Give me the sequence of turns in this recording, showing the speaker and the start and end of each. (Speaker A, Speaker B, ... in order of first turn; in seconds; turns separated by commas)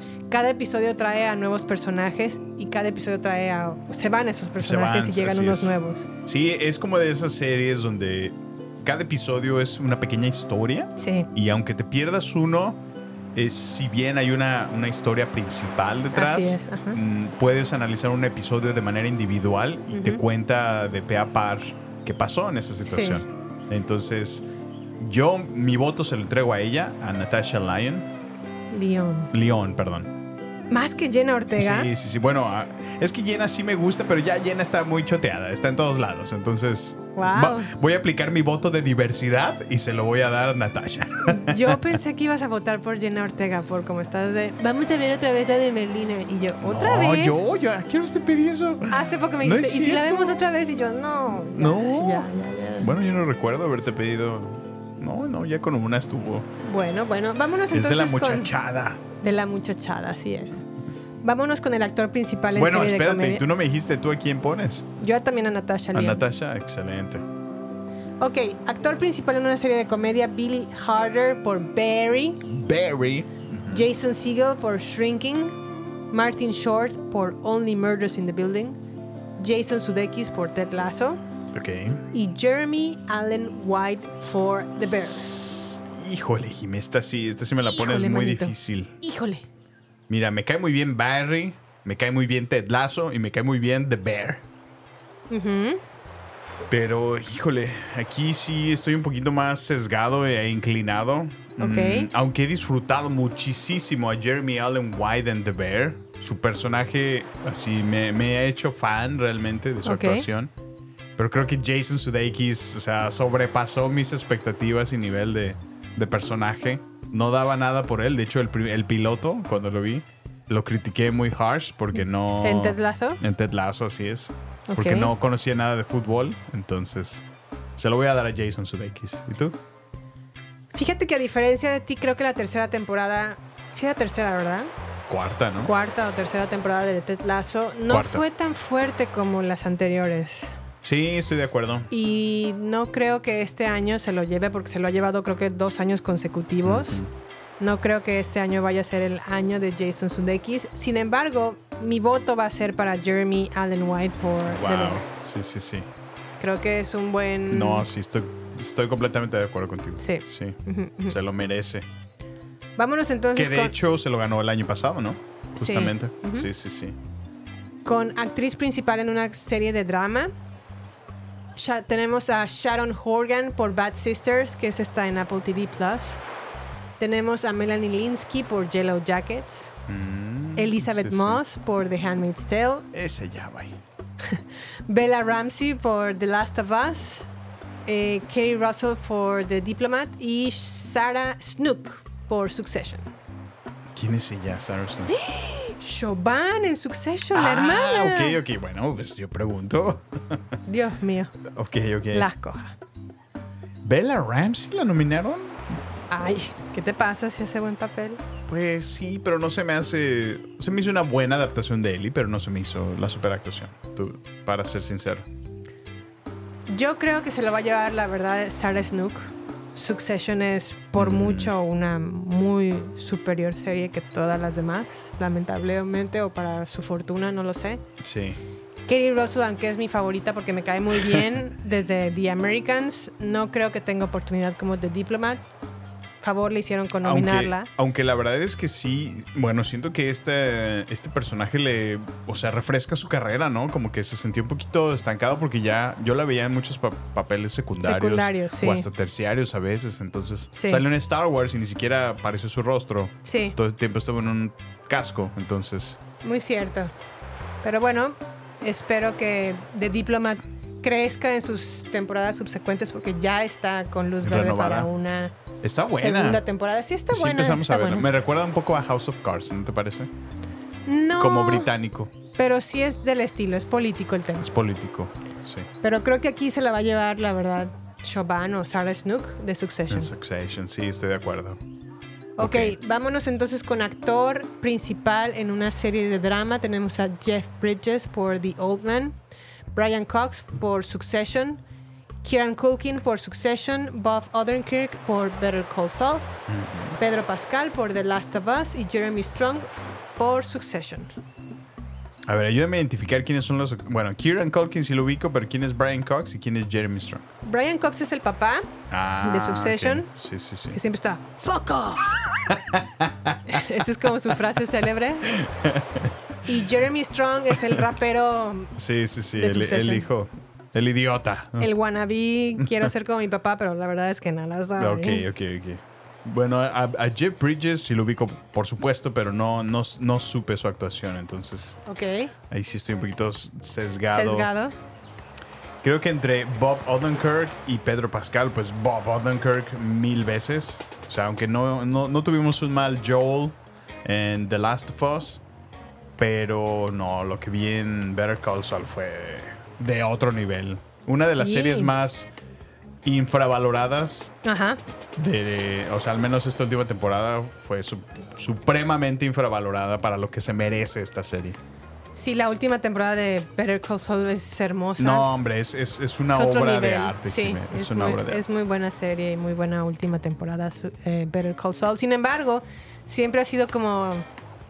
Speaker A: 0.3-6.0, Speaker B: 4.6-5.7, Speaker B: 6.2-12.8, Speaker A: 11.0-11.3, Speaker B: 13.3-24.4, Speaker A: 16.1-17.0, Speaker A: 19.9-20.2, Speaker A: 22.9-23.2, Speaker B: 25.0-28.1, Speaker A: 28.7-29.3, Speaker B: 29.3-30.1, Speaker A: 30.7-31.9, Speaker B: 31.6-41.8, Speaker A: 37.1-37.7, Speaker A: 41.2-47.4, Speaker B: 46.6-50.4, Speaker A: 48.9-52.9, Speaker B: 51.5-52.3, Speaker B: 52.8-56.5, Speaker A: 56.6-58.5, Speaker B: 57.7-59.0, Speaker A: 59.2-60.6, Speaker A: 61.2-63.4, Speaker B: 62.5-64.9, Speaker A: 65.0-66.2, Speaker B: 65.9-67.2, Speaker A: 68.2-72.4, Speaker B: 72.5-73.8, Speaker A: 73.7-75.5, Speaker A: 76.1-78.8, Speaker A: 79.4-81.2, Speaker B: 81.5-82.0, Speaker A: 82.1-85.4, Speaker B: 85.9-89.0, Speaker A: 87.7-89.4, Speaker B: 90.1-94.4, Speaker A: 95.3-95.8, Speaker B: 96.7-110.5, Speaker A: 101.6-102.1, Speaker A: 109.8-110.2, Speaker B: 111.2-127.2, Speaker A: 121.9-123.2, Speaker A: 124.7-125.1, Speaker B: 127.8-129.6, Speaker A: 130.7-134.7, Speaker B: 135.1-135.7, Speaker A: 135.6-140.5, Speaker B: 137.9-138.2, Speaker B: 140.8-141.9, Speaker A: 141.9-147.0, Speaker B: 146.6-147.1, Speaker A: 147.6-155.0, Speaker B: 154.5-155.9, Speaker A: 156.4-157.9, Speaker B: 157.5-160.6, Speaker A: 160.0-161.2, Speaker B: 161.1-161.9, Speaker A: 162.8-163.7, Speaker B: 163.3-166.9, Speaker A: 165.6-166.5, Speaker A: 167.8-170.3, Speaker A: 171.6-176.2, Speaker A: 177.0-179.7, Speaker B: 179.9-181.4, Speaker A: 180.6-182.9, Speaker B: 182.9-183.8, Speaker A: 184.2-187.3, Speaker A: 187.9-193.1, Speaker B: 193.9-195.1, Speaker A: 195.2-198.4, Speaker B: 197.3-200.4, Speaker A: 200.7-201.3, Speaker B: 201.5-202.3, Speaker A: 202.1-202.7, Speaker B: 203.8-205.8, Speaker A: 206.1-208.2, Speaker B: 208.5-215.2, Speaker A: 216.7-227.8, Speaker B: 220.9-221.5, Speaker B: 228.0-228.4, Speaker A: 228.9-235.4, Speaker A: 236.2-237.7, Speaker B: 237.0-256.0, Speaker A: 247.8-248.9, Speaker A: 250.5-250.8, Speaker A: 253.2-253.5, Speaker A: 256.2-256.9, Speaker A: 257.6-265.3, Speaker B: 264.2-264.9, Speaker B: 265.6-266.4, Speaker A: 265.9-268.1, Speaker B: 267.1-270.1, Speaker A: 270.9-271.7, Speaker B: 271.2-272.1, Speaker A: 272.4-274.5, Speaker B: 274.4-275.7, Speaker A: 275.8-280.1, Speaker B: 279.9-281.6, Speaker A: 282.4-289.1, Speaker B: 282.4-282.8, Speaker A: 289.7-291.6, Speaker A: 292.2-296.3, Speaker B: 296.5-297.0, Speaker A: 297.0-301.1, Speaker B: 302.2-307.2, Speaker A: 307.4-308.7, Speaker B: 308.9-310.8, Speaker A: 309.2-310.1, Speaker A: 310.7-312.2, Speaker B: 312.7-313.4, Speaker A: 313.5-315.3, Speaker B: 315.3-316.1, Speaker A: 316.4-318.7, Speaker B: 318.8-321.7, Speaker A: 319.4-320.0, Speaker A: 321.6-325.2, Speaker B: 324.8-331.8, Speaker A: 331.9-332.3, Speaker B: 332.5-334.5, Speaker A: 334.1-334.7, Speaker B: 335.8-345.4, Speaker B: 346.2-352.3, Speaker A: 351.2-351.9, Speaker B: 353.0-354.3, Speaker A: 354.4-354.8, Speaker B: 355.2-361.6, Speaker A: 362.1-365.3, Speaker B: 365.0-368.5, Speaker A: 366.3-374.2